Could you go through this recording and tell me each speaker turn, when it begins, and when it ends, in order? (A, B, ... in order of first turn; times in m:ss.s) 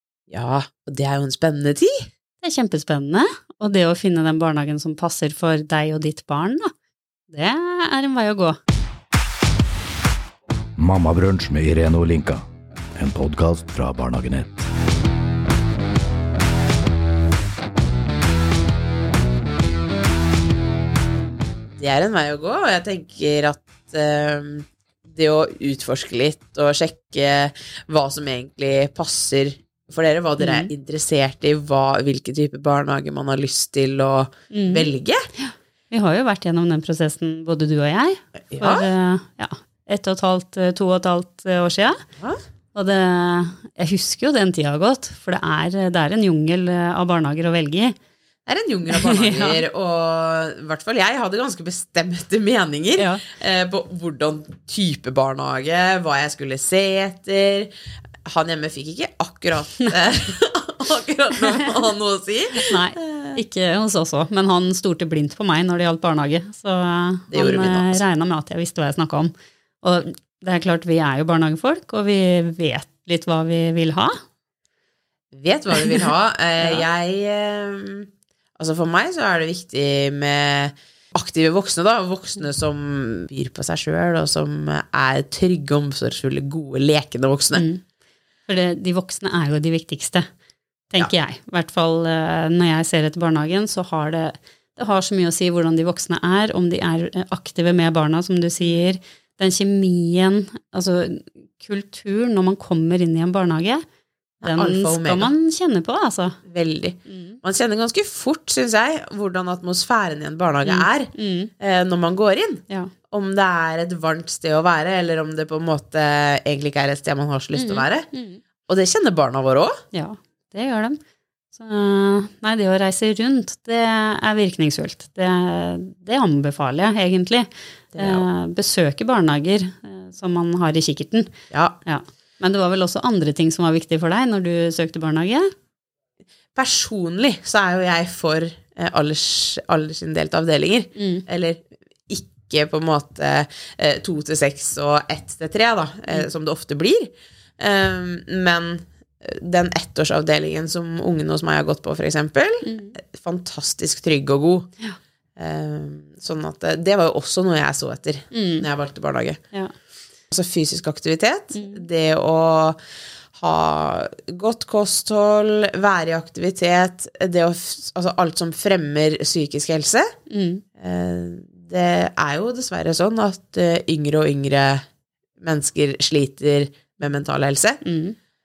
0:00.3-0:02.0 A
0:02.4-0:06.7 B
0:07.3-0:08.6 B
0:10.8-0:12.4 C
0:13.0-0:14.7 C
0:21.8-0:35.2 A
0:30.4-0:30.7 B
0:34.5-0:42.0 B
0:38.5-0:38.9 A
0:42.7-0:48.0 B
0:48.4-0:57.7 A
0:48.9-0:49.6 B
0:53.0-0:53.2 B
0:58.3-1:03.4 A
1:02.6-1:14.1 B
1:07.3-1:08.0 A
1:15.3-1:27.7 A
1:27.6-1:27.8 B
1:28.5-1:30.3 B
1:30.9-1:43.8 B
1:44.4-1:45.3 A
1:44.4-1:46.4 B
1:46.4-1:58.1 A
1:47.1-1:47.4 B
1:50.6-1:51.5 B
1:57.6-1:58.4 B
1:58.7-1:59.7 A
1:59.9-2:01.0 B
2:01.5-2:11.3 B
2:07.9-2:08.2 A
2:11.5-2:11.8 A
2:11.8-2:15.5 B
2:16.6-2:34.7 A
2:21.0-2:21.2 B
2:32.6-2:33.0 B
2:35.4-2:39.4 A
2:38.3-2:38.7 B
2:40.3-2:42.8 A
2:41.5-2:41.8 B
2:43.3-2:50.1 A
2:50.3-2:50.6 B
2:50.8-2:54.8 A
2:55.4-2:57.8 A
2:57.8-2:58.2 B